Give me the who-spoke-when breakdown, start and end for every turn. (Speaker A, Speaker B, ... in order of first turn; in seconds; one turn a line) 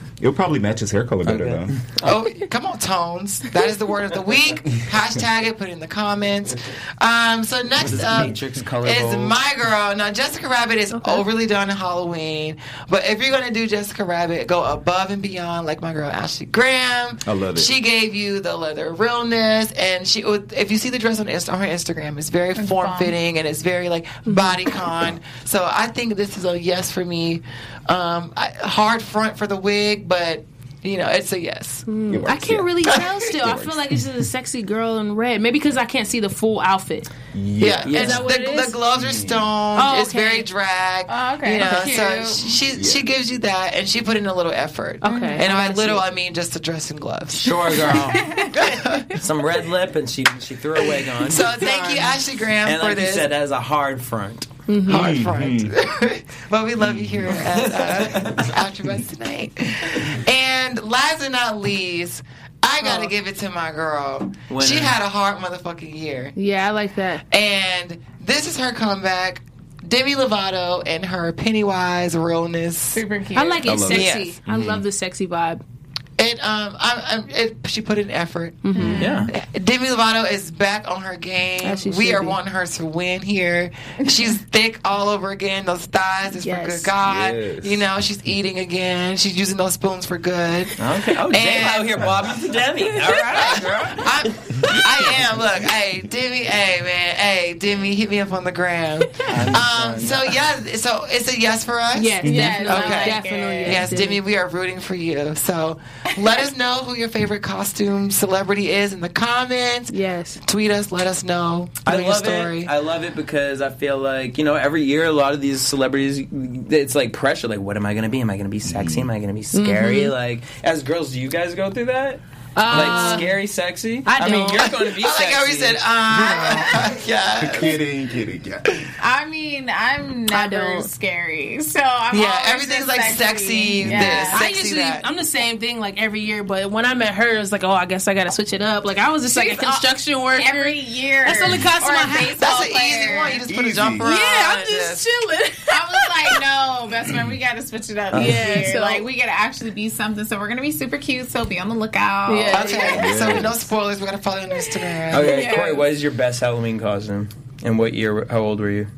Speaker A: 0.2-1.8
Speaker B: 1.2-2.1
Speaker C: 2.0-31.9
Speaker B: 7.8-9.4
Speaker D: 10.9-11.2
Speaker A: 17.2-17.7
Speaker E: 22.6-23.1
Speaker D: 24.3-24.6
Speaker D: 31.9-37.1
Speaker A: 32.1-34.0
Speaker A: 37.3-38.3
Speaker C: 37.6-49.1
Speaker B: 37.8-38.2
Speaker D: 37.9-38.8
Speaker A: 39.0-39.5
Speaker D: 39.8-40.5
Speaker E: 41.1-42.5
Speaker D: 41.6-41.9
Speaker A: 42.7-43.1
Speaker D: 45.0-46.0
Speaker E: 45.0-45.5
Speaker B: 47.3-48.5
Speaker E: 48.2-48.5
Speaker B: 49.1-54.5
Speaker C: 51.2-53.3
Speaker D: 54.7-55.1
Speaker C: 54.9-66.3
Speaker A: 54.9-55.8
Speaker A: 56.9-57.3
Speaker B: 57.3-58.5
Speaker D: 62.8-63.1
Speaker B: 64.5-65.0
Speaker D: 66.4-67.2
Speaker C: 67.3-73.0
Speaker E: 72.9-73.8
Speaker D: 73.3-75.6
Speaker A: 73.7-74.8
Speaker C: 73.8-74.4
Speaker C: 76.2-92.2
Speaker D: 78.6-79.3
Speaker E: 78.8-79.2
Speaker B: 79.0-79.3
Speaker D: 81.6-82.4
Speaker D: 86.3-86.9
Speaker A: 87.0-87.9
Speaker B: 90.8-94.3
Speaker C: 93.2-112.7
Speaker B: 99.3-100.3
Speaker D: 102.0-104.2
Speaker A: 102.2-102.6
Speaker E: 102.2-103.8
Speaker D: 109.9-110.4
Speaker B: 111.8-125.8
Speaker A: 118.7-119.1
Speaker D: 119.5-120.1
Speaker D: 122.6-123.4
Speaker D: 124.0-124.8
Speaker C: 124.8-127.8
Speaker A: 126.1-128.9
Speaker E: 129.0-134.4
Speaker D: 130.3-130.9
Speaker C: 132.1-135.1
Speaker A: 133.8-134.2
Speaker D: 134.3-142.5
Speaker E: 139.3-143.4
Speaker C: 142.4-145.1
Speaker A: 143.5-144.1
Speaker D: 144.0-146.4
Speaker E: 145.7-153.1
Speaker B: 148.1-148.6
Speaker D: 148.1-149.1
Speaker D: 152.3-153.4
Speaker C: 152.5-155.6
Speaker A: 152.9-153.7
Speaker B: 155.1-158.9
Speaker E: 155.2-155.8